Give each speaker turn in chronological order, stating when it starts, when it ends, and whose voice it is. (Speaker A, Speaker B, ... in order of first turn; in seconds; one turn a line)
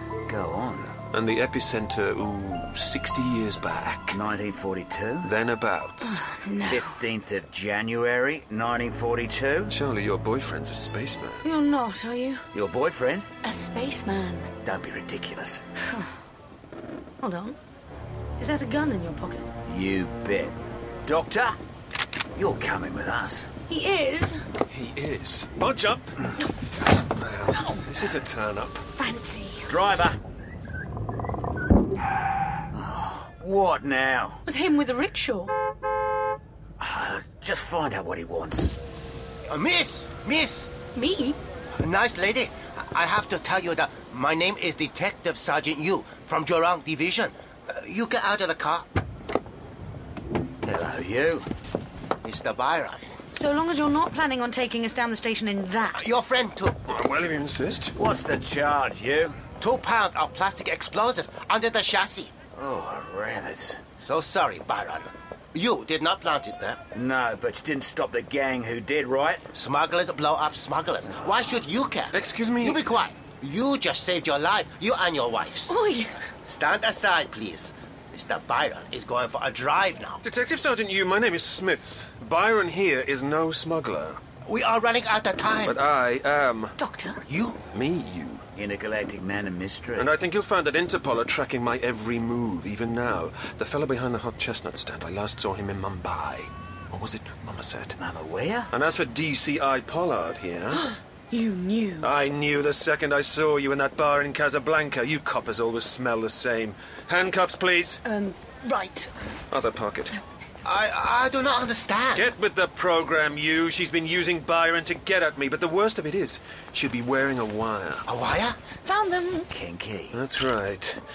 Speaker A: 0.3-0.9
Speaker B: 1.1-4.2
Speaker A: 4.1-5.3
Speaker B: 5.2-6.2
Speaker C: 6.0-7.0
Speaker A: 6.7-9.7
Speaker B: 9.7-11.4
Speaker C: 11.4-12.4
Speaker A: 12.5-13.3
Speaker C: 13.4-14.5
Speaker A: 14.6-15.6
Speaker C: 15.9-16.1
Speaker C: 17.2-17.6
Speaker C: 18.4-19.5
Speaker A: 19.7-21.6
Speaker A: 22.4-23.5
Speaker C: 23.7-24.4
Speaker B: 24.7-26.2
Speaker B: 27.2-28.8
Speaker C: 27.5-27.8
Speaker C: 29.0-29.7
Speaker A: 29.7-30.2
Speaker A: 32.7-34.4
Speaker C: 34.5-35.5
Speaker A: 36.8-38.7
Speaker D: 39.5-40.7
Speaker C: 41.0-41.4
Speaker D: 41.8-48.9
Speaker A: 50.6-51.5
Speaker D: 52.2-53.0
Speaker C: 53.3-56.1
Speaker D: 56.0-56.8
Speaker B: 56.9-57.9
Speaker A: 58.0-59.4
Speaker D: 59.6-62.3
Speaker A: 62.5-63.8
Speaker D: 64.0-66.8
Speaker A: 66.9-69.5
Speaker D: 69.5-75.7
Speaker A: 71.1-71.6
Speaker B: 72.1-72.9
Speaker C: 75.7-76.2
Speaker D: 76.4-80.2
Speaker B: 80.2-84.2
Speaker D: 84.5-85.8
Speaker B: 85.6-86.8
Speaker C: 86.8-87.2
Speaker D: 87.3-87.6
Speaker B: 87.7-88.4
Speaker A: 88.6-90.1
Speaker B: 90.0-98.0
Speaker A: 98.0-98.7
Speaker B: 98.7-100.8
Speaker C: 100.7-102.1
Speaker B: 102.0-108.0
Speaker C: 108.0-109.1
Speaker B: 109.5-110.2
Speaker D: 110.6-112.3
Speaker B: 112.1-118.1
Speaker D: 118.1-118.6
Speaker C: 118.8-119.5
Speaker A: 119.5-120.2
Speaker B: 120.1-121.0